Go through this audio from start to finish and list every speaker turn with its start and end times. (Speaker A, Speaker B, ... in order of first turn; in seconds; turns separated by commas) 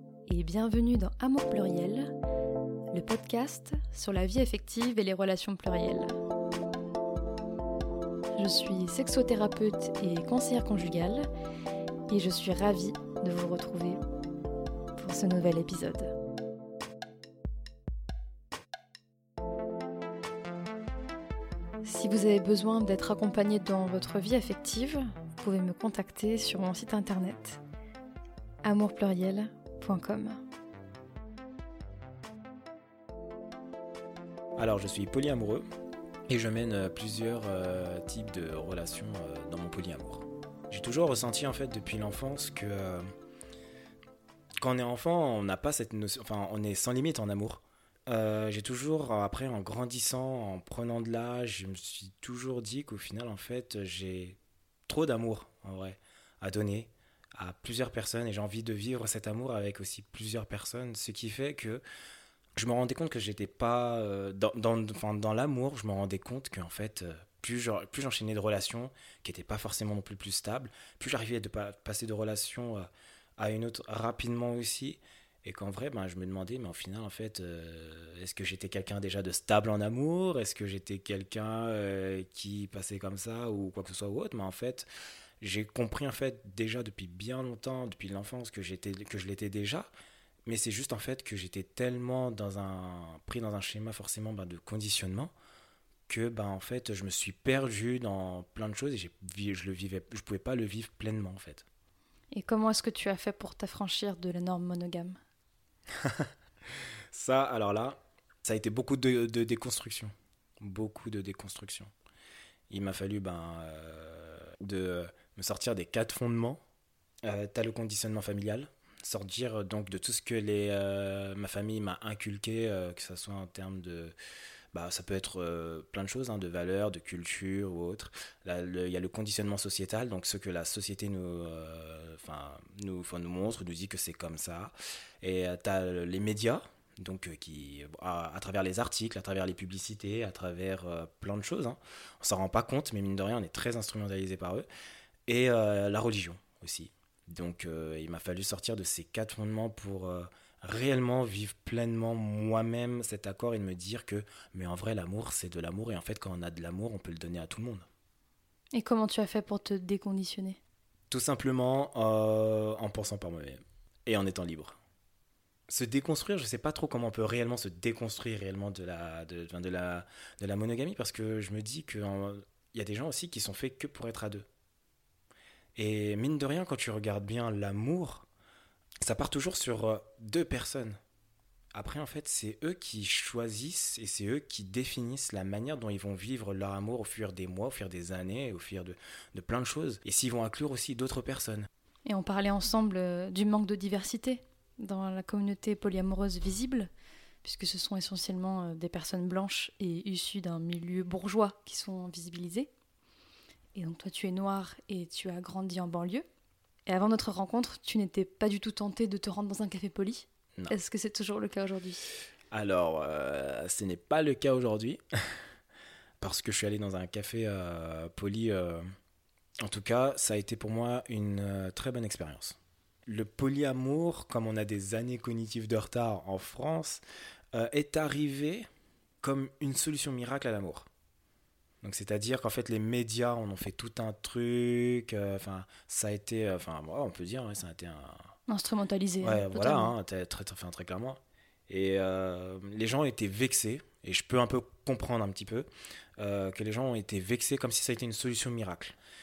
Speaker A: 0.3-2.1, Speaker A: 2.9-6.2, Speaker A: 8.4-11.3, Speaker A: 12.1-14.0, Speaker A: 15.0-16.1, Speaker A: 21.8-27.6, Speaker A: 28.6-30.4, Speaker B: 34.6-35.6, Speaker B: 36.3-43.0, Speaker B: 44.6-61.8, Speaker B: 62.6-84.9, Speaker B: 85.4-89.9, Speaker B: 90.5-95.3, Speaker B: 96.1-101.7, Speaker A: 102.3-105.2, Speaker B: 106.0-106.3, Speaker B: 107.1-111.9, Speaker B: 112.7-116.6, Speaker B: 117.2-124.1, Speaker B: 124.7-144.7, Speaker B: 145.3-157.9, Speaker A: 158.7-160.6, Speaker B: 161.1-164.8, Speaker B: 165.7-174.5, Speaker B: 175.8-178.3, Speaker B: 179.0-181.0, Speaker B: 181.7-191.7, Speaker A: 192.1-196.9, Speaker A: 197.4-202.7, Speaker A: 203.8-206.2, Speaker A: 206.9-212.0, Speaker B: 212.5-215.4, Speaker B: 216.2-218.8, Speaker B: 219.6-227.0, Speaker B: 227.5-228.7, Speaker B: 229.2-230.9, Speaker B: 231.8-238.3, Speaker A: 238.5-240.0, Speaker B: 239.2-245.7, Speaker B: 246.2-249.0